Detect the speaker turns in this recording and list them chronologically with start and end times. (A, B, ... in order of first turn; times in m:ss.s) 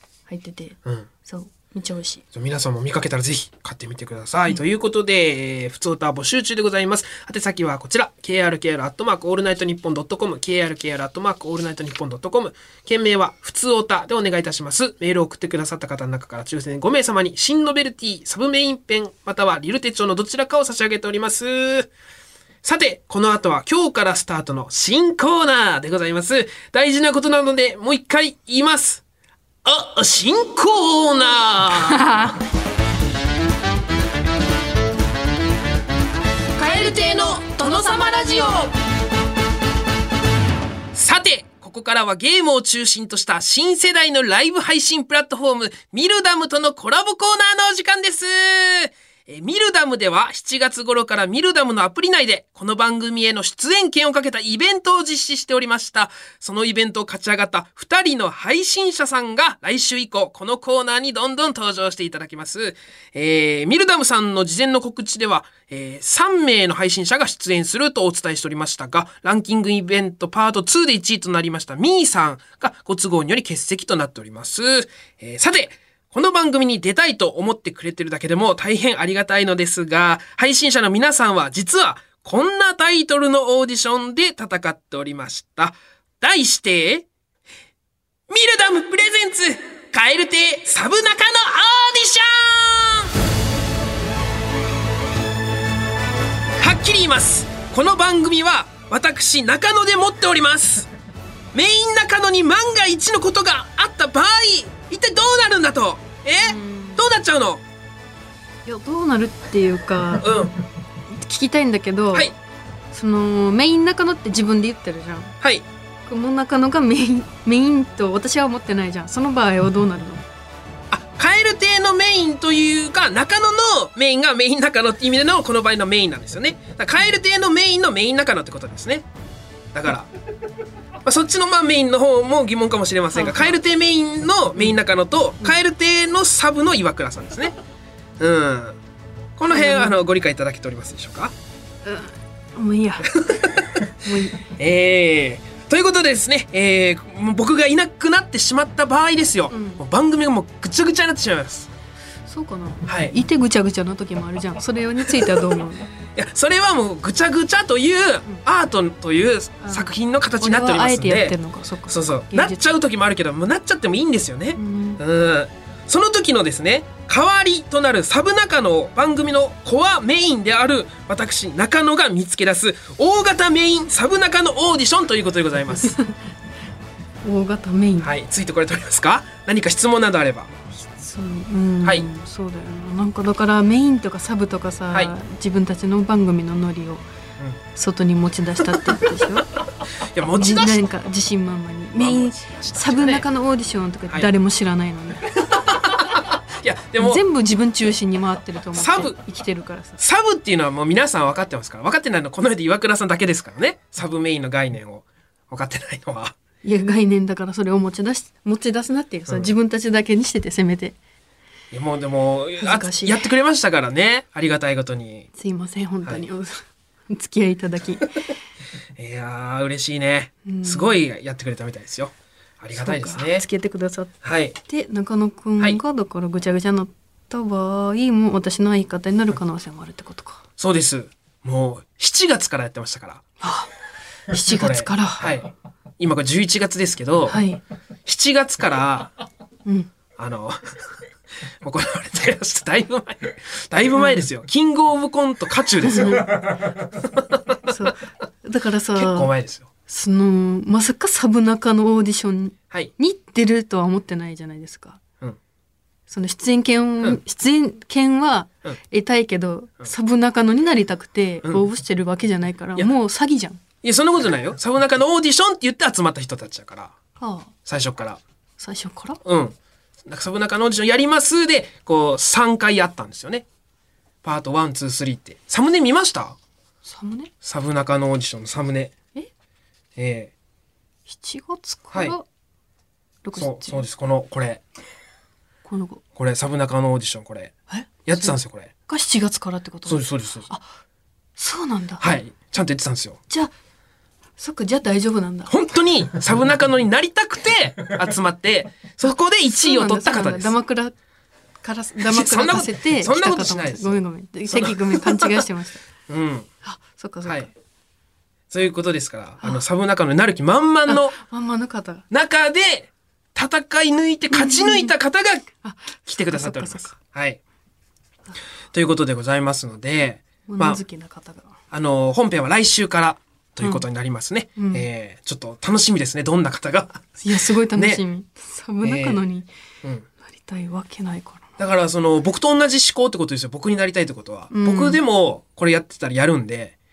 0:00.3-0:02.2 A
0:02.3-0:21.9 B
0:22.6-0:29.0 B
0:29.6-0:32.3 B
0:31.7-0:32.3 A
0:36.6-0:38.7 C
0:40.9-1:27.1 B
1:28.3-1:33.1 B
1:36.6-1:40.9 B
1:41.5-1:47.6 B
1:46.4-1:47.0 A
1:48.6-1:50.3 A
1:50.2-1:50.6 B
1:51.1-1:52.3 A
1:52.9-1:55.4 A
1:56.1-2:00.2 A
2:00.9-2:09.1 B
2:09.7-2:10.1 B
2:11.0-2:17.6 B
2:13.1-2:13.6 A
2:18.2-2:18.8 B
2:19.4-2:21.3 B
2:19.5-2:20.0 A
2:21.8-2:23.1 A
2:23.1-2:23.9 B
2:24.0-2:24.5 A
2:24.5-2:31.7 B
2:29.5-2:29.8 A
2:32.3-2:35.9 A
2:32.9-2:33.1 B
2:36.1-2:41.4 B
2:39.6-2:42.7 A
2:41.9-2:56.0 B
2:44.6-2:45.0 A
2:55.8-2:56.1 A
2:57.2-2:58.1 A
2:58.0-3:00.5 B
3:00.8-3:07.0 A
3:07.7-3:09.5 A
3:10.1-3:10.9 B
3:10.4-3:15.3 A
3:12.0-3:13.2 B
3:15.4-3:17.2 B
3:17.0-3:20.0 A
3:18.8-3:19.2 B
3:20.0-3:26.4 B
3:26.6-3:31.0 A
3:31.7-3:35.3 B
3:32.6-3:33.3 A
3:35.4-3:38.1 A
3:39.0-3:43.4 B
3:40.4-3:41.0 A
3:42.8-3:44.1 A
3:44.2-3:44.6 B
3:44.7-3:50.4 A
3:50.6-3:53.2 B
3:53.4-3:53.7 A
3:54.3-3:55.3 A
3:54.5-3:57.4 B
3:57.3-3:57.6 A
3:58.0-3:59.1 B
3:59.6-3:59.9 A
4:00.2-4:00.9 B
4:01.6-4:07.6 B
4:03.9-4:04.2 A
4:05.8-4:06.4 A
4:07.6-4:09.3 A
4:09.0-4:09.7 B
4:09.9-4:15.0 A
4:16.1-4:23.6 A
4:23.8-4:27.0 B
4:27.2-4:27.5 A
4:27.6-4:28.2 B
4:28.6-4:29.2 A
4:29.2-4:33.4 B
4:34.2-4:36.4 B
4:36.8-4:37.3 A
4:37.4-4:38.9 B
4:40.0-4:40.3 B
4:41.1-4:42.3 A
4:43.2-4:43.9 A
4:43.4-4:44.6 B
4:45.6-4:46.0 A
4:46.2-4:47.5 B
4:47.7-4:48.4 A
4:48.0-4:48.7 B
4:48.9-4:50.7 A
4:49.9-4:50.5 B
4:51.4-4:52.1 A
4:52.0-4:53.2 B
4:54.4-4:55.5 A
4:55.5-5:00.5 B
4:59.5-5:01.0 A
5:01.6-5:05.8 A
5:02.0-5:05.4 B
5:06.1-5:06.5 B
5:06.6-5:07.5 A
5:08.5-5:11.2 B
5:10.9-5:12.0 A
5:12.1-5:15.5 B
5:14.3-5:14.9 A
5:15.6-5:17.0 A
5:16.0-5:17.4 B
5:18.7-5:20.8 B
5:20.5-5:21.6 A
5:21.7-5:28.0 B
5:24.6-5:24.8 A
5:27.2-5:29.5 A
5:28.8-5:29.2 B
5:30.2-5:31.6 A
5:31.6-5:36.8 B
5:34.5-5:35.0 A